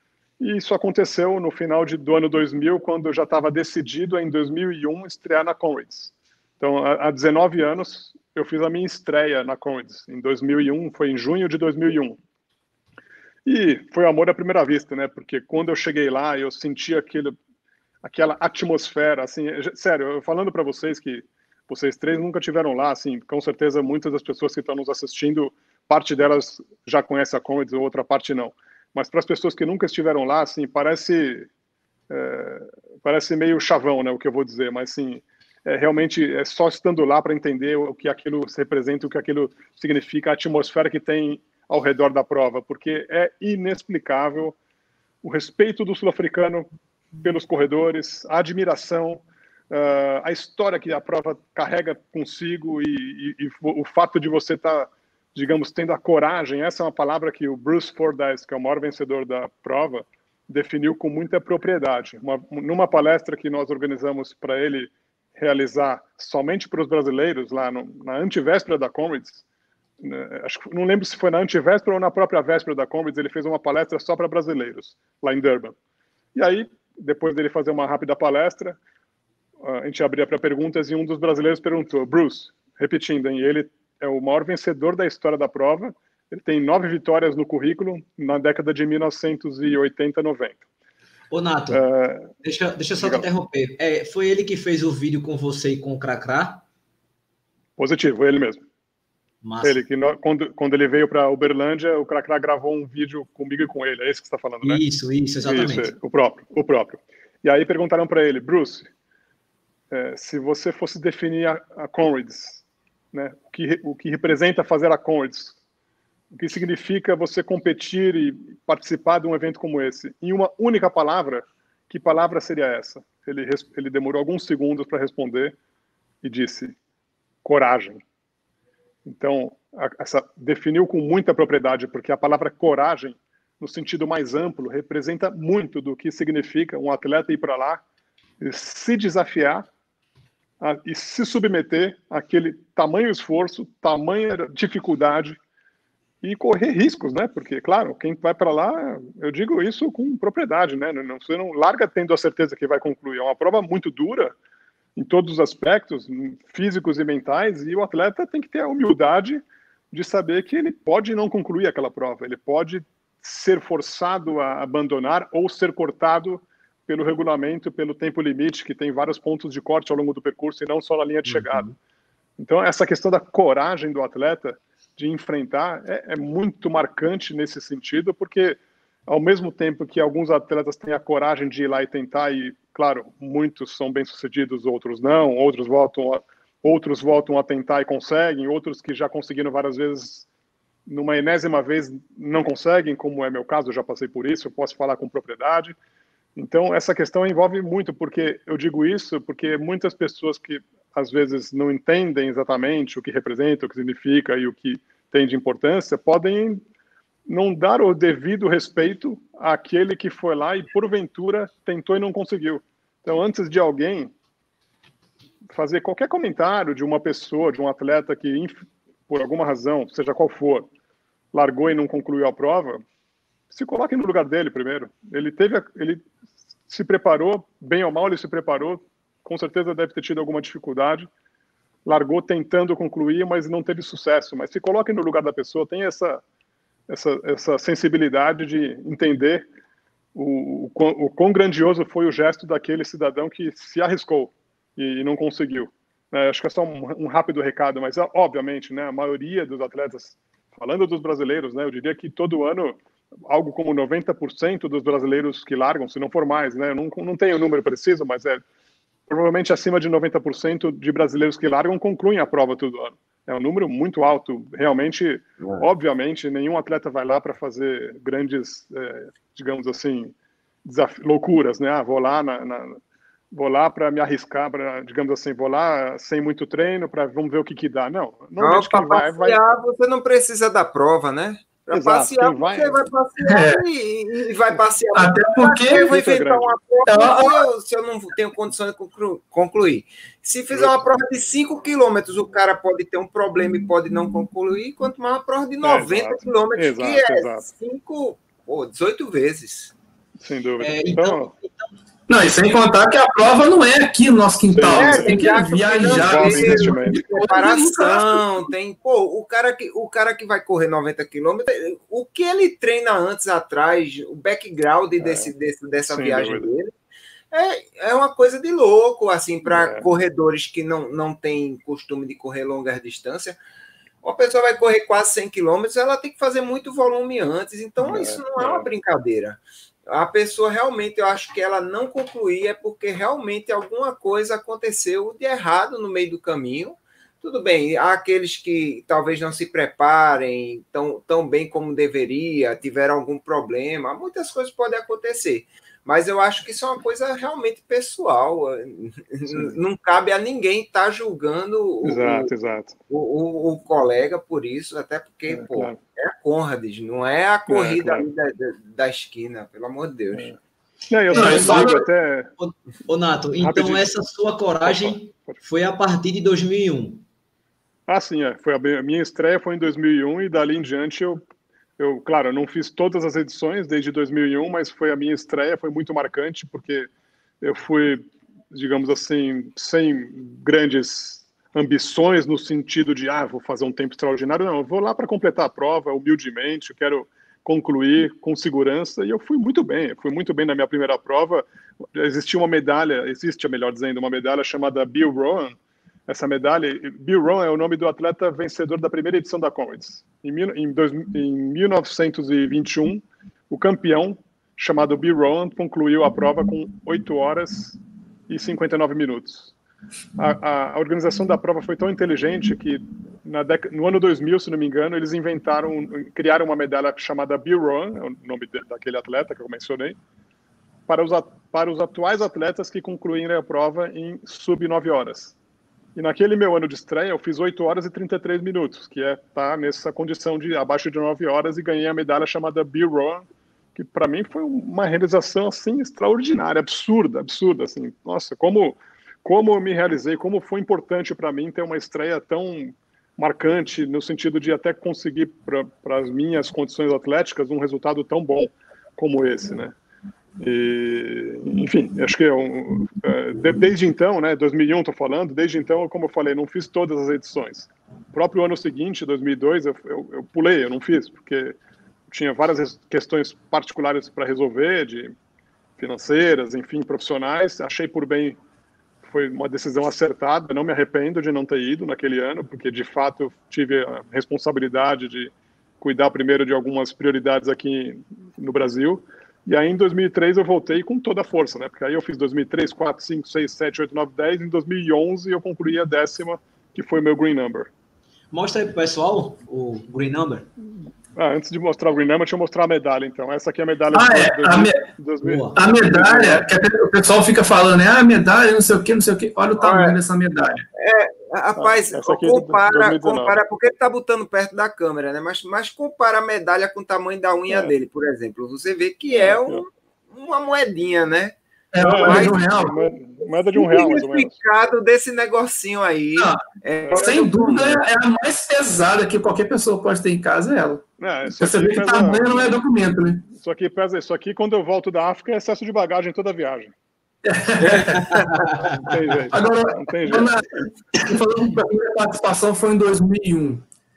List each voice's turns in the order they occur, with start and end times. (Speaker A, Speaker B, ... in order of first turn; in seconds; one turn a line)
Speaker A: 0.4-12.2
Speaker A: 13.5-17.4
Speaker A: 18.0-31.5
Speaker A: 32.1-44.6
Speaker A: 45.2-46.7
Speaker A: 47.2-69.4
Speaker A: 70.0-75.8
Speaker A: 76.3-78.8
Speaker A: 79.6-90.6
Speaker B: 91.3-91.8
Speaker A: 91.7-92.3
Speaker B: 92.4-96.6
Speaker A: 93.0-93.3
Speaker A: 97.8-98.6
Speaker B: 99.4-99.8
Speaker A: 99.6-104.8
Speaker B: 104.6-105.9
Speaker A: 105.5-108.9
Speaker A: 109.9-115.6
Speaker A: 116.3-125.6
Speaker A: 126.2-126.8
Speaker A: 127.4-128.0
Speaker A: 129.1-137.8
Speaker A: 138.4-139.7
Speaker A: 140.6-145.4
Speaker A: 146.2-154.3
Speaker A: 155.0-171.7
Speaker A: 172.4-190.3
Speaker A: 190.9-195.8
Speaker A: 196.4-206.6
Speaker A: 207.3-214.1
Speaker A: 215.5-220.7
Speaker A: 221.3-222.8
Speaker A: 223.5-226.1
Speaker A: 226.7-231.1
Speaker A: 231.8-236.2
Speaker A: 236.9-239.5
Speaker A: 240.2-258.4
Speaker A: 259.1-272.8
Speaker A: 273.3-279.4
Speaker C: 278.4-299.7
Speaker A: 281.7-282.8
Speaker D: 283.2-283.6
Speaker D: 284.9-286.0
Speaker A: 285.8-286.6
Speaker D: 286.9-287.5
Speaker A: 290.5-290.8
Speaker A: 295.6-297.5
Speaker A: 300.2-301.3
Speaker B: 300.6-301.7
Speaker D: 302.1-308.2
Speaker A: 304.5-307.0
Speaker C: 304.8-316.7
Speaker A: 315.0-315.3
Speaker A: 315.9-316.5
Speaker C: 317.3-323.4
Speaker A: 319.4-319.9
Speaker C: 324.0-352.3
Speaker A: 327.8-328.6
Speaker A: 349.3-349.6
Speaker A: 351.8-352.8
Speaker C: 352.9-360.3
Speaker A: 355.3-355.8
Speaker A: 357.5-358.1
Speaker A: 360.9-362.3
Speaker B: 361.1-361.8
Speaker D: 361.1-361.9
Speaker B: 362.4-367.0
Speaker A: 363.4-363.9
Speaker A: 364.6-365.4
Speaker A: 367.9-371.2
Speaker A: 371.8-376.9
Speaker A: 377.4-395.6
Speaker A: 396.1-407.8
Speaker A: 408.3-409.5
Speaker A: 410.2-420.0
Speaker A: 420.9-425.4
Speaker A: 425.9-449.7
Speaker A: 450.4-461.6
Speaker A: 462.1-465.1
Speaker A: 465.8-468.4
Speaker A: 469.1-487.7
Speaker B: 488.3-490.5
Speaker A: 491.2-496.4
Speaker D: 493.9-494.9
Speaker B: 495.2-495.6
Speaker D: 495.6-500.6
Speaker C: 499.6-500.0
Speaker C: 500.8-512.9
Speaker A: 501.6-503.4
Speaker A: 509.1-509.6
Speaker D: 511.7-512.7
Speaker A: 511.8-514.3
Speaker C: 513.5-517.8
Speaker D: 516.2-523.3
Speaker A: 516.9-517.2
Speaker A: 521.0-522.6
Speaker A: 523.3-526.7
Speaker D: 527.2-528.2
Speaker C: 527.6-528.5
Speaker A: 528.8-530.4
Speaker D: 529.3-533.6